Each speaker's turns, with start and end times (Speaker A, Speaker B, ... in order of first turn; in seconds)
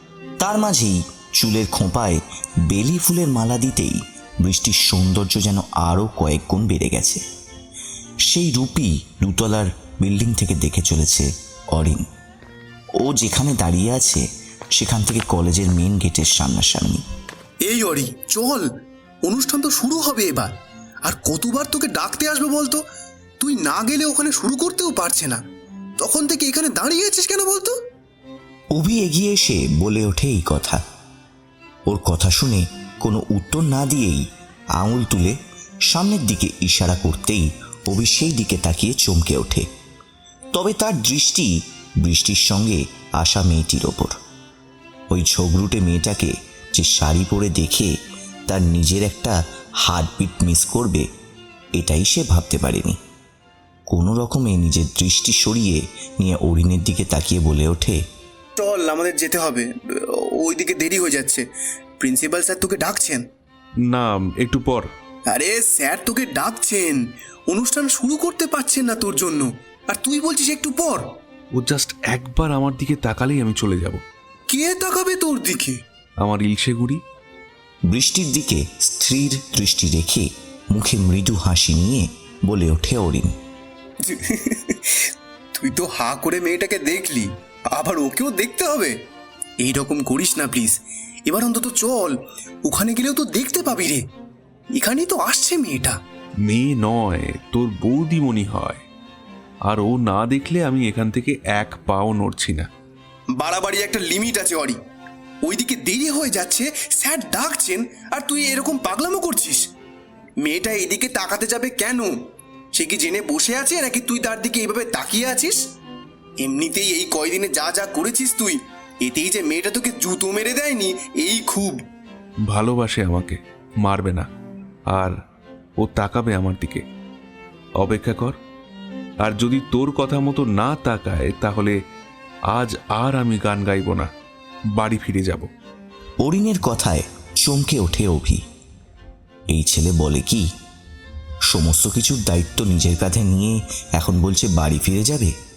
Speaker A: 0.4-7.2, 8.3-12.1, 13.0-14.2, 14.8-17.0, 28.7-30.8, 31.9-34.2, 34.8-35.4, 35.9-39.7, 40.5-44.2, 45.1-47.9, 48.5-51.1, 51.8-53.0, 53.9-58.0, 77.9-83.3, 136.2-138.4, 139.5-140.5, 141.5-145.3
Speaker B: 17.6-18.7, 19.2-20.5, 21.0-22.8, 23.4-25.4, 26.0-27.7, 58.6-61.4, 62.0-63.2, 65.3-71.1, 74.5-75.8, 84.0-89.0, 89.6-94.0, 94.7-96.0, 103.3-104.8, 105.4-109.7, 110.4-112.2, 112.7-115.6, 116.4-121.8
Speaker C: 63.8-64.9, 71.5-74.0, 76.2-77.0, 96.4-98.8, 99.7-102.7, 122.5-124.3, 124.9-125.2, 125.8-126.8, 127.8-128.4, 129.2-131.8, 132.5-134.1, 134.7-135.5